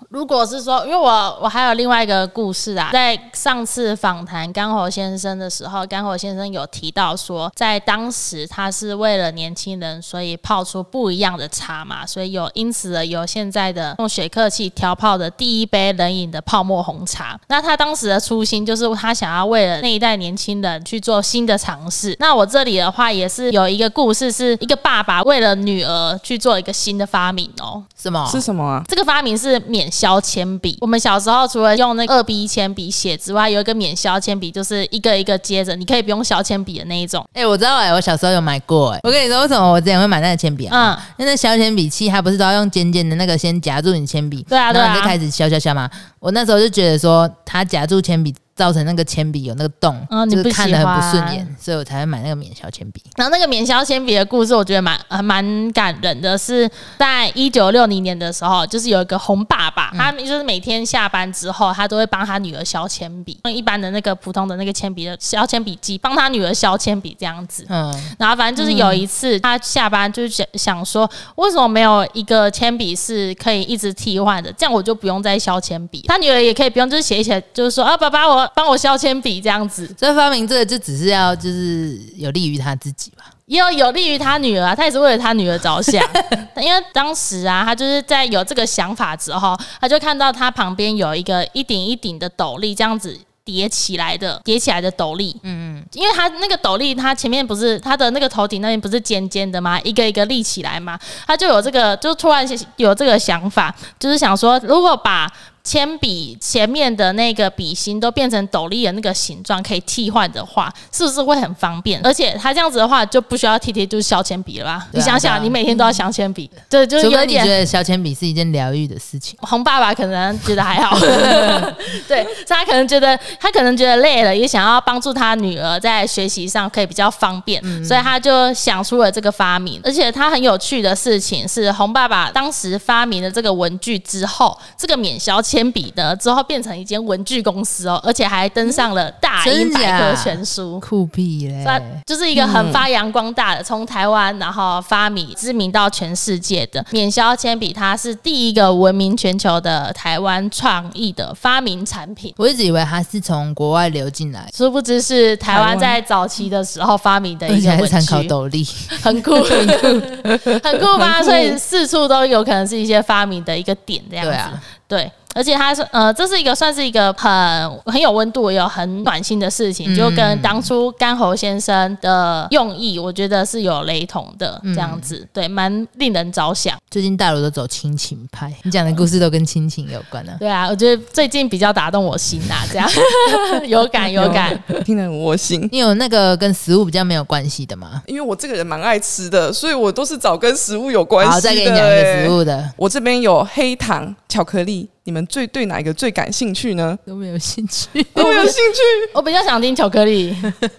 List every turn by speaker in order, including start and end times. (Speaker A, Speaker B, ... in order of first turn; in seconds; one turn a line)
Speaker A: 0.1-27.9
Speaker B: 28.0-28.4
Speaker C: 28.2-28.9
Speaker A: 28.9-37.3
Speaker B: 37.3-53.0
Speaker A: 40.7-41.0
Speaker A: 44.5-45.2
Speaker A: 50.1-51.5
Speaker A: 53.1-79.9
Speaker B: 67.7-68.1
Speaker C: 68.6-68.9
Speaker B: 80.0-83.3
Speaker A: 83.5-95.4
Speaker B: 95.4-95.9
Speaker A: 95.9-117.5
Speaker B: 114.9-115.6
Speaker B: 117.0-119.4
Speaker A: 119.4-140.8
Speaker B: 121.0-121.6
Speaker B: 127.6-128.1
Speaker B: 139.4-142.0
Speaker A: 141.6-152.3
Speaker C: 142.3-142.9
Speaker B: 152.4-154.5
Speaker A: 154.5-158.3
Speaker C: 155.4-156.0
Speaker B: 157.5-160.3
Speaker A: 158.9-176.8
Speaker C: 161.1-161.5
Speaker B: 164.2-164.6
Speaker B: 169.8-170.7
Speaker B: 174.6-175.1
Speaker B: 176.9-180.4
Speaker A: 180.4-184.8
Speaker C: 184.2-185.7
Speaker B: 185.7-188.0
Speaker C: 188.0-197.0
Speaker B: 191.2-192.8
Speaker B: 197.1-198.5
Speaker C: 198.1-199.1
Speaker A: 198.2-198.6
Speaker A: 199.1-200.6